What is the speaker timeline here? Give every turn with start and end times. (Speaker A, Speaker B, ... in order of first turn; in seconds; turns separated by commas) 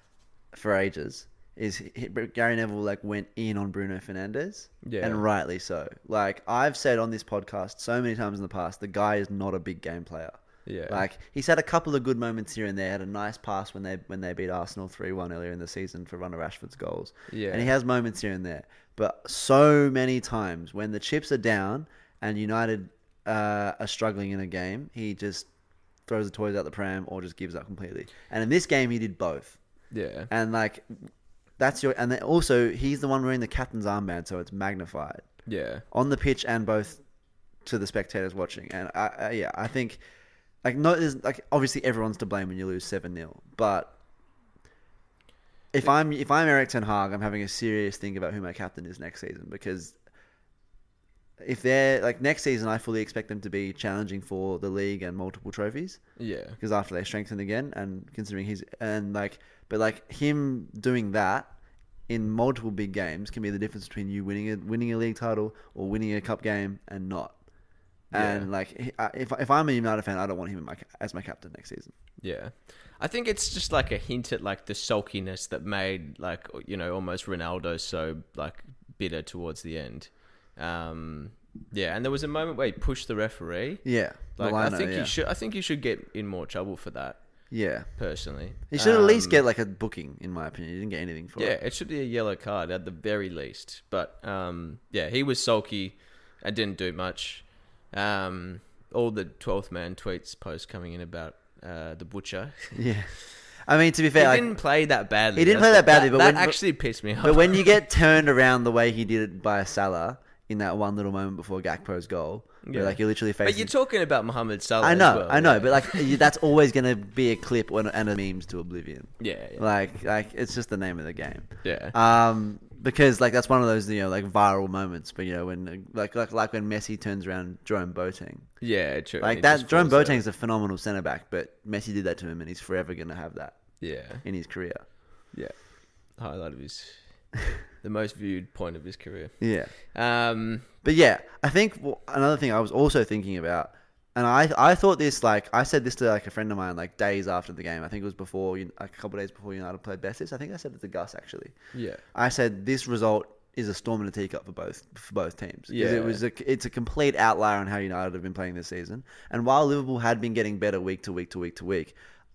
Speaker A: 0.5-25.5, Speaker B: 4.8-5.2, Speaker B: 10.7-11.1, Speaker B: 17.3-17.7, Speaker A: 26.1-29.6, Speaker B: 29.9-30.3, Speaker A: 30.3-35.3, Speaker B: 35.5-35.8, Speaker A: 35.9-37.0, Speaker A: 37.6-40.0, Speaker A: 40.6-44.0, Speaker A: 45.7-50.0, Speaker A: 51.4-56.0, Speaker B: 56.2-56.6, Speaker A: 56.6-61.5, Speaker A: 62.1-67.4, Speaker A: 68.1-71.9, Speaker B: 68.1-68.5, Speaker B: 72.2-83.8, Speaker A: 83.8-85.1, Speaker B: 84.3-87.2, Speaker A: 87.5-87.9, Speaker B: 88.0-89.4, Speaker A: 88.7-91.6, Speaker B: 91.4-102.8, Speaker A: 102.7-104.6, Speaker B: 104.1-107.8, Speaker A: 105.3-106.6, Speaker A: 107.2-113.7, Speaker B: 112.6-116.2, Speaker A: 114.8-128.5, Speaker B: 119.2-119.7, Speaker B: 121.6-122.0, Speaker B: 128.6-130.2, Speaker A: 129.2-134.9, Speaker B: 133.8-134.2, Speaker B: 135.3-137.3, Speaker B: 137.8-140.7, Speaker A: 139.4-139.8, Speaker A: 140.8-151.5, Speaker B: 151.7-152.0, Speaker A: 152.1-161.9, Speaker B: 155.7-156.2